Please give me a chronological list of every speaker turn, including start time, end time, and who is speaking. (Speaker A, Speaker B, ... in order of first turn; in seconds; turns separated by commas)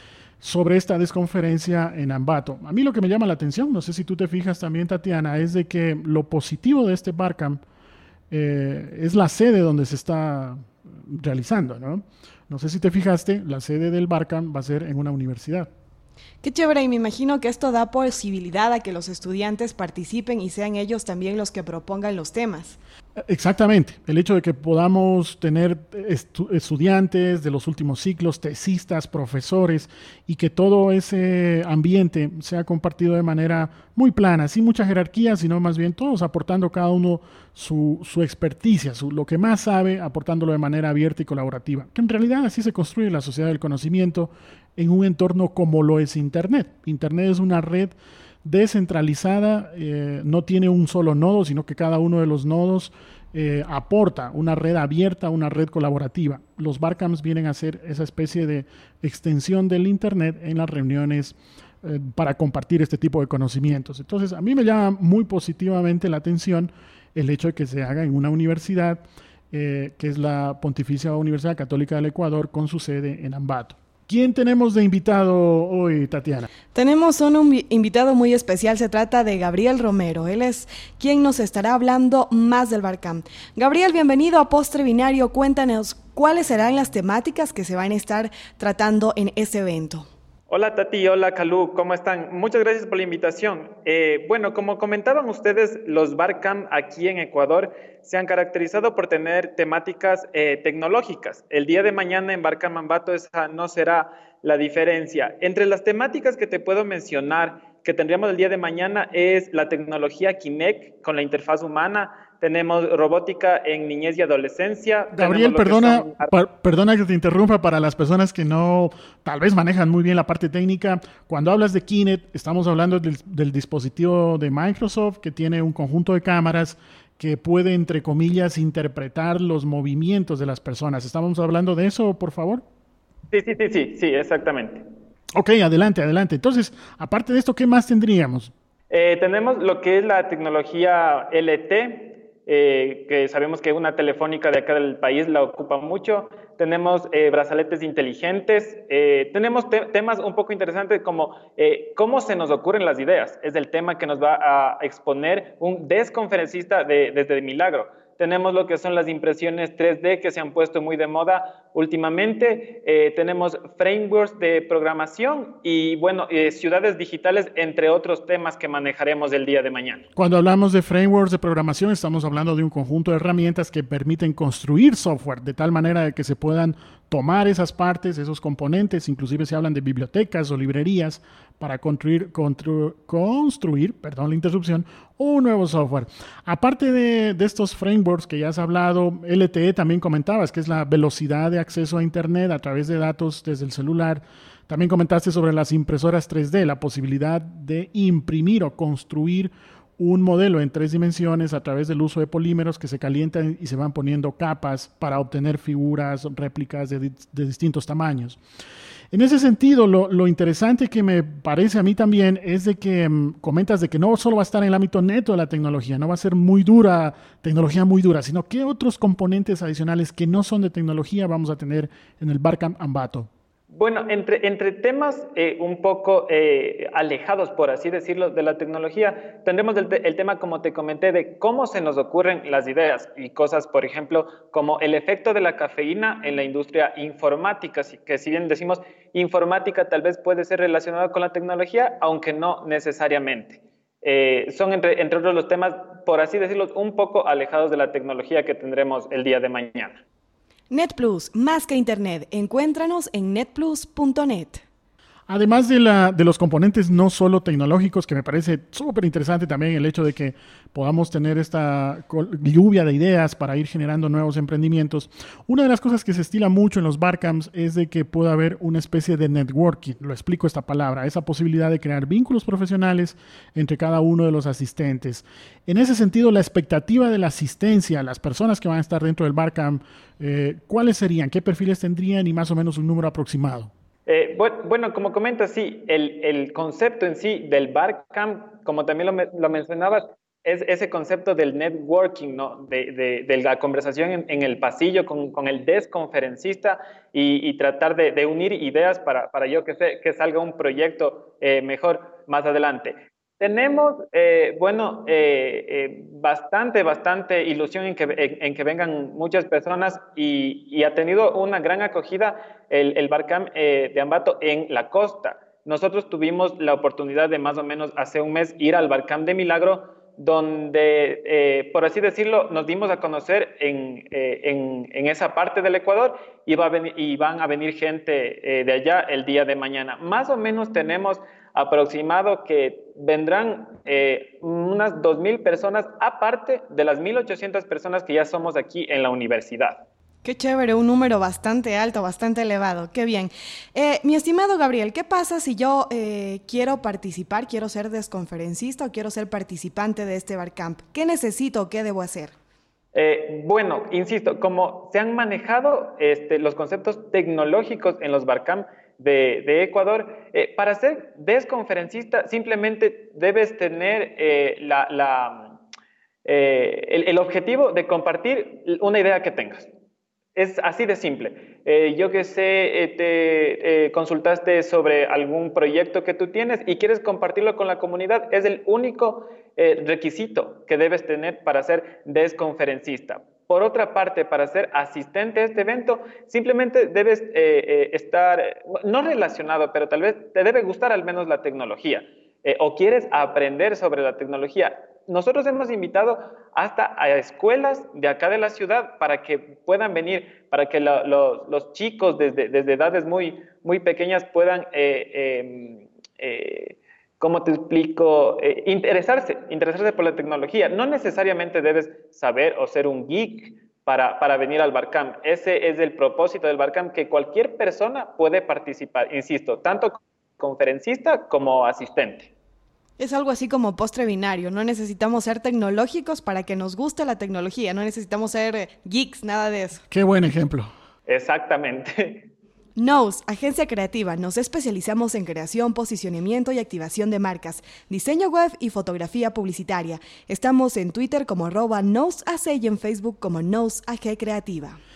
Speaker A: 0.4-7.6, Speaker A: 8.3-15.7, Speaker B: 16.4-22.8, Speaker A: 23.3-76.5, Speaker B: 76.7-90.1, Speaker C: 90.5-116.3, Speaker A: 115.1-132.6, Speaker C: 133.3-134.8, Speaker A: 135.4-138.5, Speaker C: 138.9-170.0, Speaker A: 170.2-208.4, Speaker A: 209.1-223.3, Speaker C: 223.7-250.0, Speaker B: 250.7-254.6, Speaker A: 255.3-283.7, Speaker C: 284.1-339.8, Speaker B: 340.2-352.3, Speaker C: 352.9-365.6, Speaker C: 366.2-369.7, Speaker C: 370.4-422.3, Speaker B: 423.0-429.8, Speaker A: 429.9-430.7, Speaker C: 431.1-432.3, Speaker B: 432.8-444.8